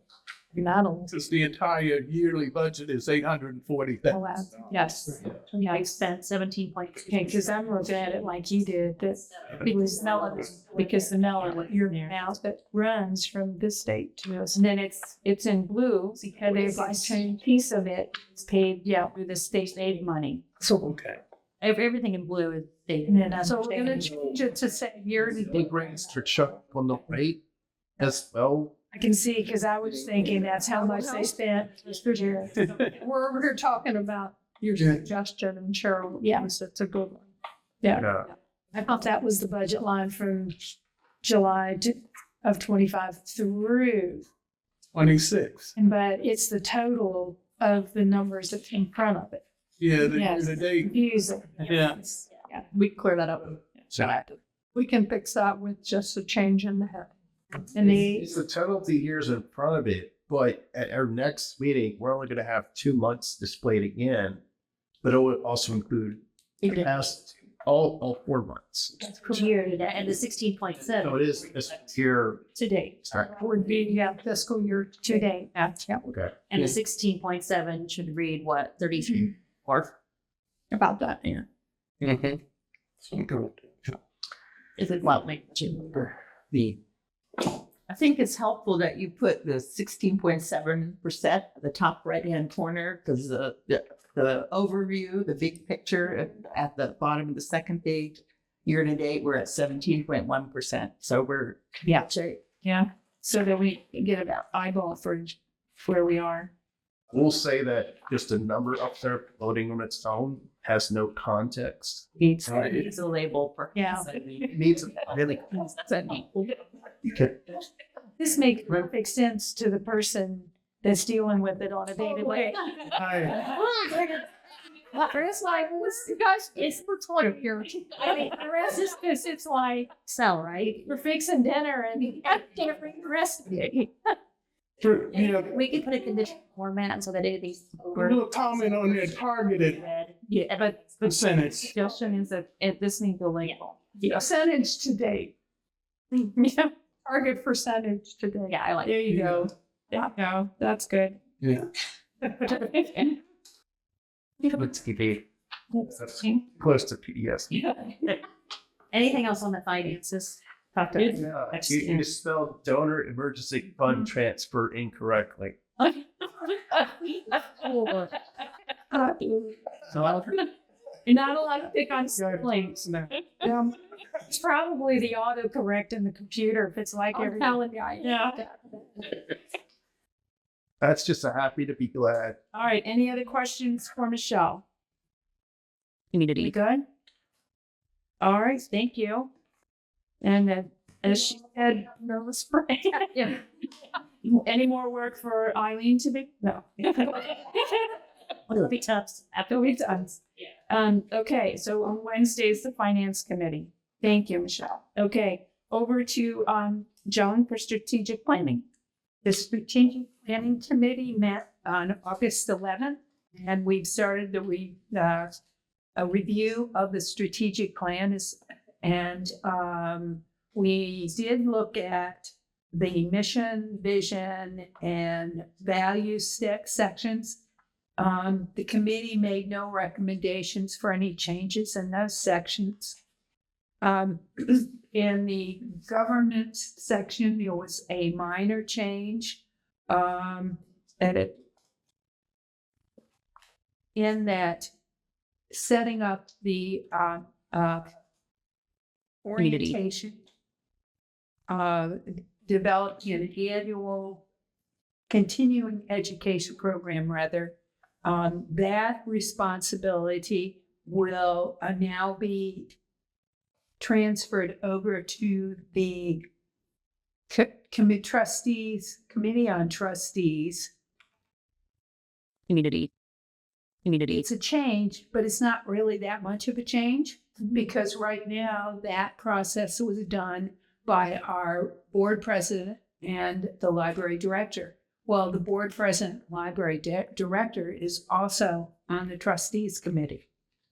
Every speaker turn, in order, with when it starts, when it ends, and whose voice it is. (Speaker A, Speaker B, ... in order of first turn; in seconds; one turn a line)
Speaker A: 0.5-1.1
Speaker B: 1.1-4.2
Speaker A: 4.1-6.0
Speaker C: 5.6-7.4
Speaker A: 7.1-20.0
Speaker C: 9.8-10.3
Speaker C: 11.4-12.1
Speaker B: 20.8-21.2
Speaker C: 21.6-24.1
Speaker A: 23.1-25.6
Speaker D: 25.5-27.4
Speaker D: 28.0-28.7
Speaker A: 28.9-36.9
Speaker E: 30.8-31.2
Speaker E: 34.3-35.2
Speaker B: 34.8-35.0
Speaker A: 37.8-38.2
Speaker D: 38.0-38.3
Speaker A: 38.7-40.5
Speaker A: 41.2-44.2
Speaker B: 44.9-45.7
Speaker A: 45.8-49.4
Speaker B: 49.8-50.9
Speaker A: 50.0-54.1
Speaker B: 51.6-52.0
Speaker A: 54.8-57.0
Speaker A: 57.7-58.2
Speaker D: 57.8-64.4
Speaker D: 65.0-68.9
Speaker A: 69.1-69.5
Speaker C: 69.3-71.2
Speaker D: 71.0-72.4
Speaker A: 72.6-76.0
Speaker C: 76.5-79.9
Speaker A: 80.7-81.4
Speaker B: 82.0-82.4
Speaker B: 83.1-84.0
Speaker C: 84.8-86.1
Speaker E: 86.5-86.8
Speaker E: 87.9-102.4
Speaker A: 102.6-106.5
Speaker D: 107.1-112.0
Speaker C: 112.2-114.1
Speaker B: 112.5-112.8
Speaker E: 112.9-114.5
Speaker A: 113.7-114.1
Speaker D: 114.5-115.5
Speaker C: 115.5-116.4
Speaker A: 118.2-124.0
Speaker C: 122.0-124.0
Speaker A: 124.9-129.9
Speaker C: 128.0-129.0
Speaker C: 129.9-130.9
Speaker A: 130.8-133.9
Speaker B: 134.8-135.5
Speaker C: 135.1-138.2
Speaker B: 137.9-139.8
Speaker C: 139.7-141.2
Speaker A: 140.6-145.3
Speaker B: 141.0-141.7
Speaker C: 143.4-144.2
Speaker A: 146.1-151.2
Speaker C: 148.5-149.0
Speaker B: 149.1-149.4
Speaker B: 151.4-151.7
Speaker A: 152.4-153.1
Speaker C: 152.4-153.1
Speaker D: 154.5-155.2
Speaker D: 155.8-157.5
Speaker C: 157.5-158.2
Speaker C: 158.9-162.1
Speaker D: 161.1-165.6
Speaker A: 167.5-168.0
Speaker A: 168.9-169.5
Speaker A: 171.1-173.7
Speaker B: 172.2-173.1
Speaker A: 174.2-178.8
Speaker E: 177.1-178.2
Speaker D: 180.8-182.4
Speaker A: 182.5-184.6
Speaker C: 186.1-186.5
Speaker A: 186.4-186.8
Speaker A: 188.2-189.3
Speaker A: 190.2-193.4
Speaker A: 194.2-197.9
Speaker C: 198.5-199.8
Speaker A: 199.5-200.2
Speaker A: 200.7-208.6
Speaker A: 209.2-215.3
Speaker A: 215.9-227.4
Speaker A: 228.0-233.0
Speaker A: 233.8-241.4
Speaker A: 243.9-244.7
Speaker A: 245.5-247.9
Speaker A: 249.2-250.2
Speaker C: 249.4-249.8
Speaker A: 251.5-254.2
Speaker A: 255.1-262.8
Speaker A: 263.8-266.2
Speaker A: 267.3-270.7
Speaker C: 272.5-272.9
Speaker C: 273.8-274.2
Speaker A: 274.1-290.2